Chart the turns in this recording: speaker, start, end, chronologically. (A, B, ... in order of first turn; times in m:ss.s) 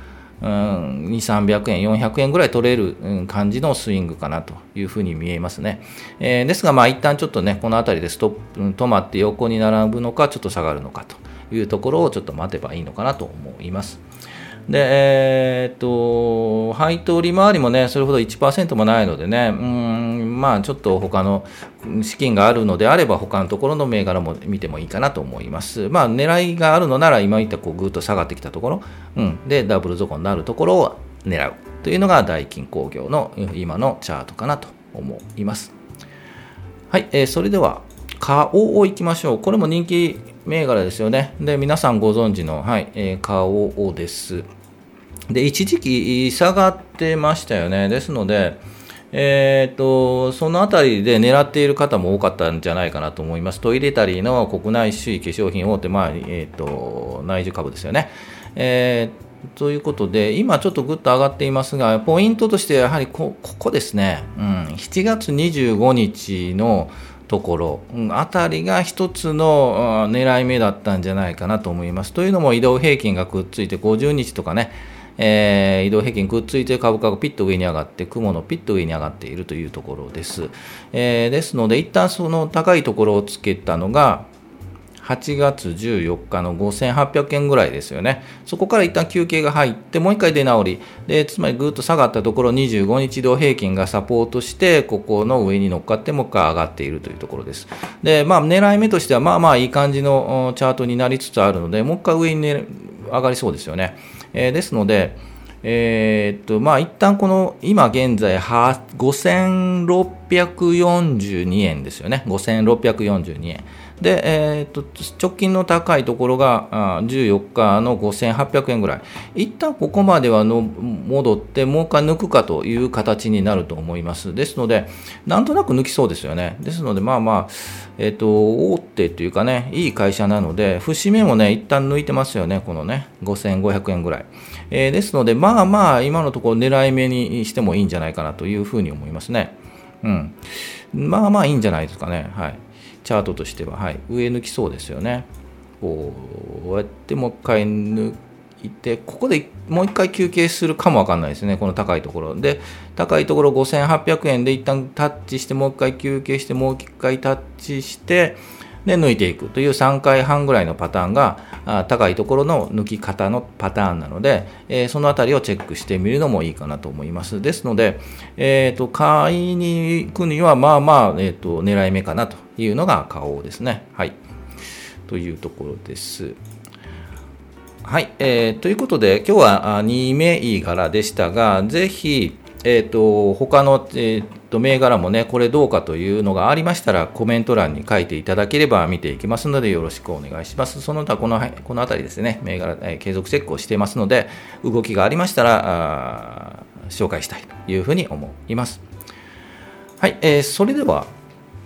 0:00.4-0:14.0 A
0:14.7-0:35.7 A
0:36.9-0:44.5 A
0:45.3-0:48.6 A
0:49.1-1:24.3 A
1:25.0-2:20.4 A
2:20.9-2:25.3 A
2:25.8-2:54.2 A
2:55.1-2:56.4 A
2:57.8-3:18.8 A
3:20.0-3:21.1 A